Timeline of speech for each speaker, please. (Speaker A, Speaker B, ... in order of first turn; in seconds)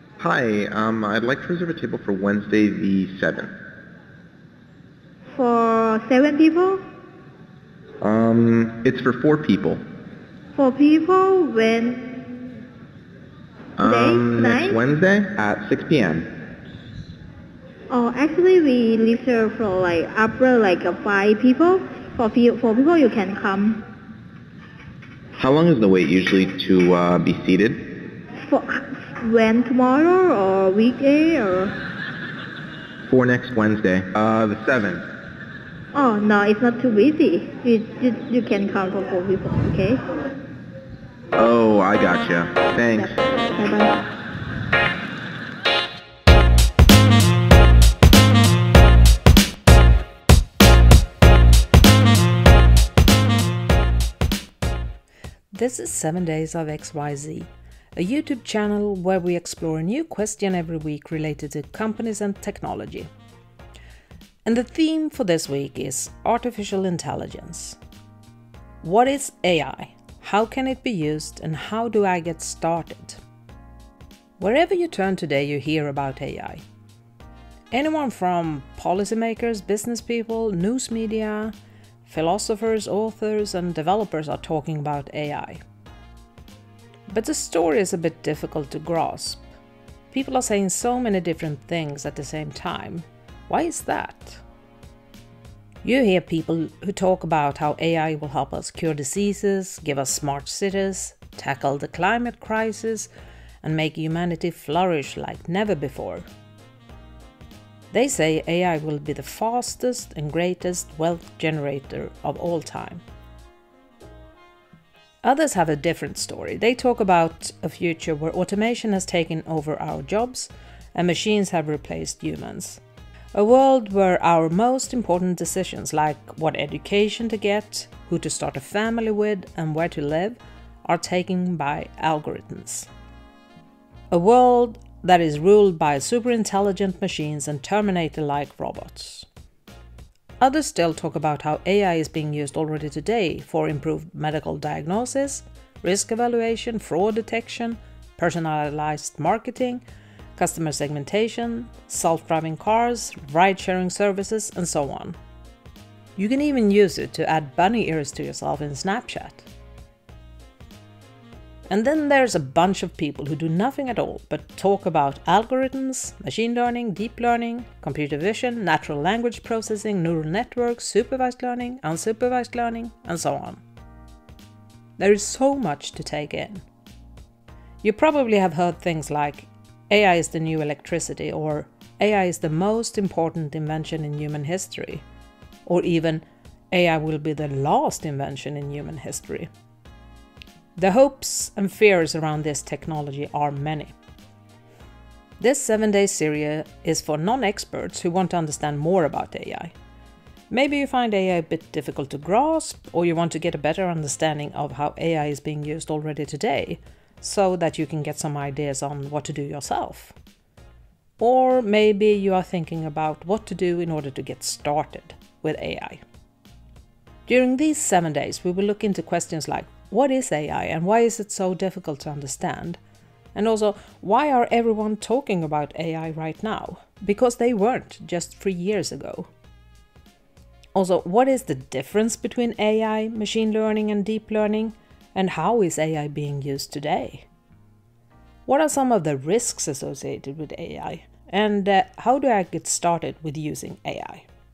Speaker A: 0.2-3.5, 8.0-9.8, 13.8-16.3, 25.4-27.8, 33.1-35.0, 41.4-43.1
Speaker B: 5.3-6.8, 10.6-12.5, 13.8-14.8, 17.9-23.8, 28.4-31.8, 35.9-40.0, 43.0-44.0
Speaker C: 55.5-63.1, 64.5-67.8, 68.8-73.2, 74.4-76.6, 77.7-81.5, 82.1-85.6, 87.1-89.5, 90.1-94.4, 95.8-103.1, 103.6-106.2, 107.9-113.0, 115.2-122.8, 123.3-132.9, 134.1-139.3, 140.4-149.8, 150.4-155.2, 156.2-159.5, 161.7-173.6, 175.0-176.7, 177.8-185.1, 185.7-189.5, 190.8-193.9, 195.4-199.7, 200.5-210.2, 211.2-216.0, 217.3-222.8, 223.3-229.3, 230.8-237.3, 238.5-244.3